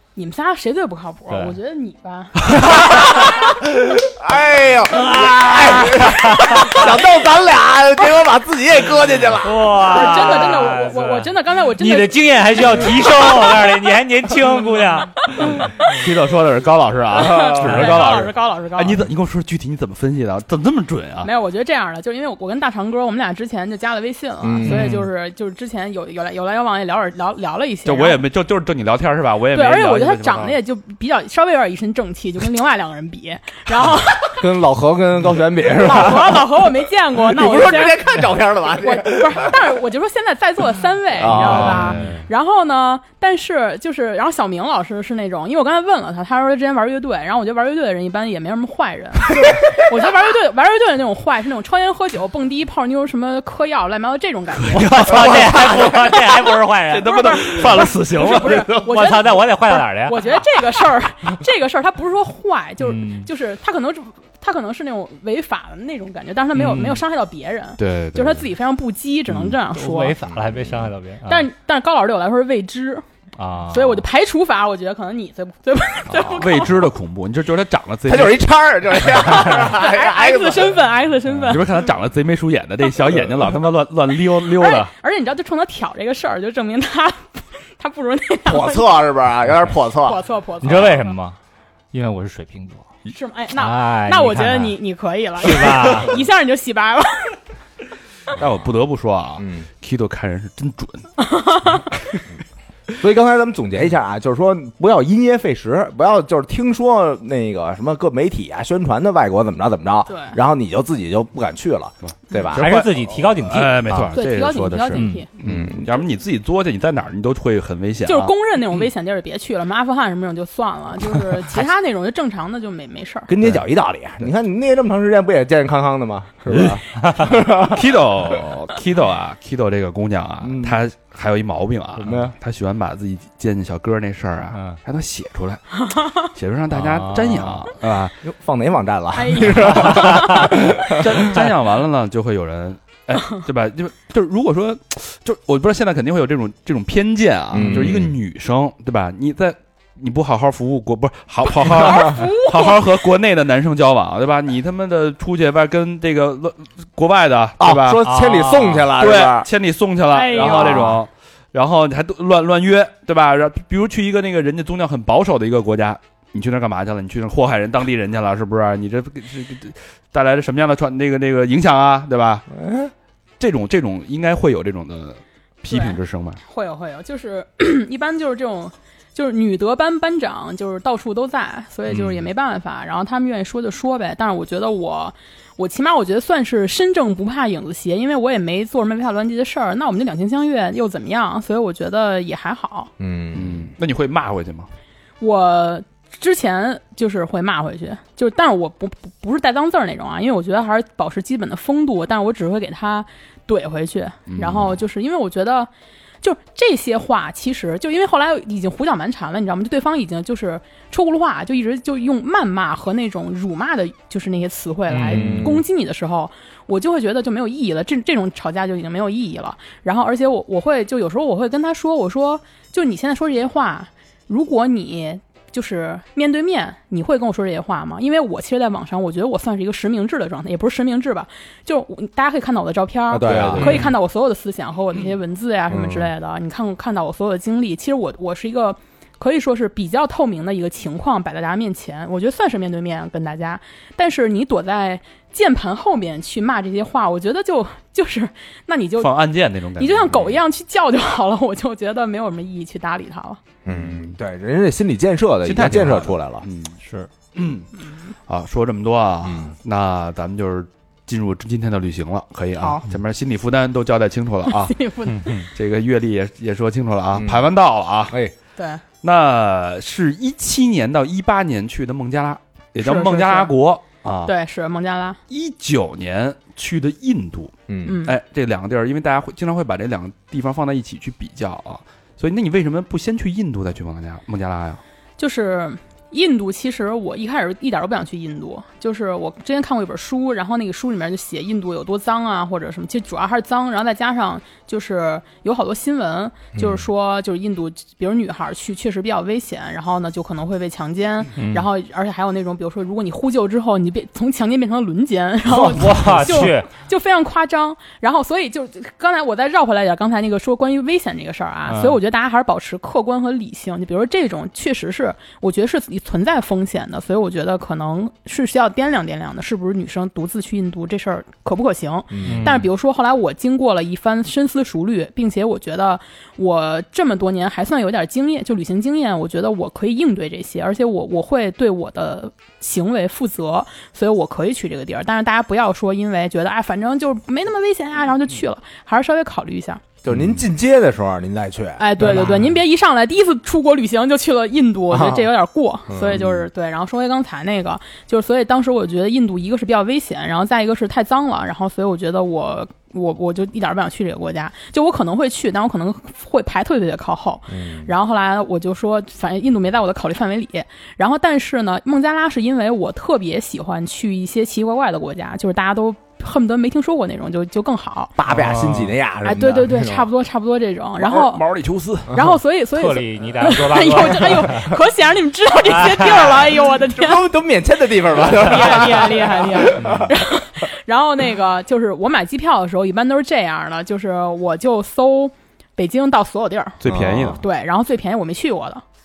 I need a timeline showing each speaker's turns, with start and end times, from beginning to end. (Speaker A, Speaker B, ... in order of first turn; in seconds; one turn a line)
Speaker A: 0.2-3.2
Speaker B: 1.3-1.6
Speaker C: 2.5-9.8
Speaker B: 5.9-6.8
Speaker B: 9.4-15.1
Speaker A: 9.9-13.5
Speaker A: 15.4-15.7
Speaker D: 15.5-21.3
Speaker A: 17.1-19.0
Speaker A: 21.2-28.2
Speaker C: 24.4-24.9
Speaker B: 24.6-25.1
Speaker D: 27.9-30.6
Speaker A: 29.5-34.4
Speaker C: 34.4-39.6
Speaker A: 35.7-70.2
Speaker C: 41.2-42.1
Speaker D: 41.3-42.2
Speaker B: 54.7-57.4
Speaker D: 54.7-56.0
Speaker D: 56.9-59.0
Speaker B: 58.8-60.5
Speaker B: 62.8-63.3
Speaker B: 66.5-67.0
Speaker D: 67.8-68.5
Speaker B: 69.8-71.5
Speaker A: 71.3-73.0
Speaker B: 73.4-74.0
Speaker A: 73.7-76.8
Speaker D: 76.1-78.4
Speaker C: 78.1-80.8
Speaker A: 79.3-81.7
Speaker D: 81.5-84.9
Speaker A: 84.5-89.0
Speaker C: 88.5-90.2
Speaker A: 90.0-91.2
Speaker B: 90.6-91.4
Speaker B: 91.9-92.8
Speaker A: 93.1-97.4
Speaker B: 93.6-94.8
Speaker B: 95.4-96.2
Speaker D: 98.3-101.1
Speaker C: 99.4-99.7
Speaker A: 101.2-101.9
Speaker C: 103.0-112.7
Speaker A: 110.1-110.4
Speaker D: 112.1-118.3
Speaker B: 112.5-114.1
Speaker A: 114.1-115.3
Speaker B: 114.9-115.2
Speaker C: 115.4-116.0
Speaker A: 118.1-123.3
Speaker C: 123.3-128.5
Speaker D: 127.6-138.1
Speaker C: 130.4-130.8
Speaker C: 132.0-132.3
Speaker B: 136.8-137.5
Speaker C: 138.2-141.5
Speaker A: 139.2-140.6
Speaker D: 140.8-158.0
Speaker C: 147.5-148.1
Speaker A: 151.5-152.8
Speaker C: 157.6-159.5
Speaker B: 158.1-158.9
Speaker D: 158.9-172.5
Speaker A: 160.1-161.0
Speaker C: 160.4-160.8
Speaker C: 172.5-172.9
Speaker D: 173.4-176.4
Speaker A: 175.7-192.9
Speaker D: 181.9-182.2
Speaker C: 193.0-193.7
Speaker D: 193.3-194.7
Speaker A: 195.2-205.7
Speaker D: 204.3-204.8
Speaker A: 206.2-249.2
Speaker B: 214.9-215.5
Speaker C: 215.1-215.6
Speaker C: 233.1-233.9
Speaker D: 233.3-233.8
Speaker C: 235.7-236.1
Speaker D: 249.0-250.3
Speaker A: 249.8-253.4
Speaker C: 253.7-256.5
Speaker D: 255.4-256.8
Speaker B: 256.8-257.1
Speaker D: 257.3-257.7
Speaker D: 258.3-264.8
Speaker C: 259.2-259.5
Speaker A: 262.6-262.9
Speaker A: 264.5-265.5
Speaker B: 265.1-265.4
Speaker D: 265.5-268.2
Speaker C: 267.1-267.5
Speaker A: 268.6-268.8
Speaker D: 269.0-274.3
Speaker A: 272.8-273.5
Speaker A: 274.3-275.2
Speaker D: 275.3-284.8
Speaker C: 277.7-278.0
Speaker A: 277.9-278.1
Speaker A: 285.2-339.8
Speaker C: 296.6-296.8
Speaker B: 305.5-306.7
Speaker B: 311.7-312.0
Speaker C: 322.1-322.6
Speaker B: 322.2-322.6
Speaker C: 340.0-342.6
Speaker D: 340.1-340.4
Speaker A: 341.8-368.1
Speaker C: 344.9-345.3
Speaker C: 345.9-346.4
Speaker C: 357.5-357.9
Speaker C: 368.2-370.1
Speaker B: 368.3-369.0
Speaker A: 369.2-371.4
Speaker D: 371.0-372.2
Speaker A: 372.1-377.3
Speaker B: 372.8-374.7
Speaker B: 375.8-376.3
Speaker C: 376.9-380.1
Speaker A: 378.2-388.8
Speaker D: 386.8-387.4
Speaker C: 386.8-387.4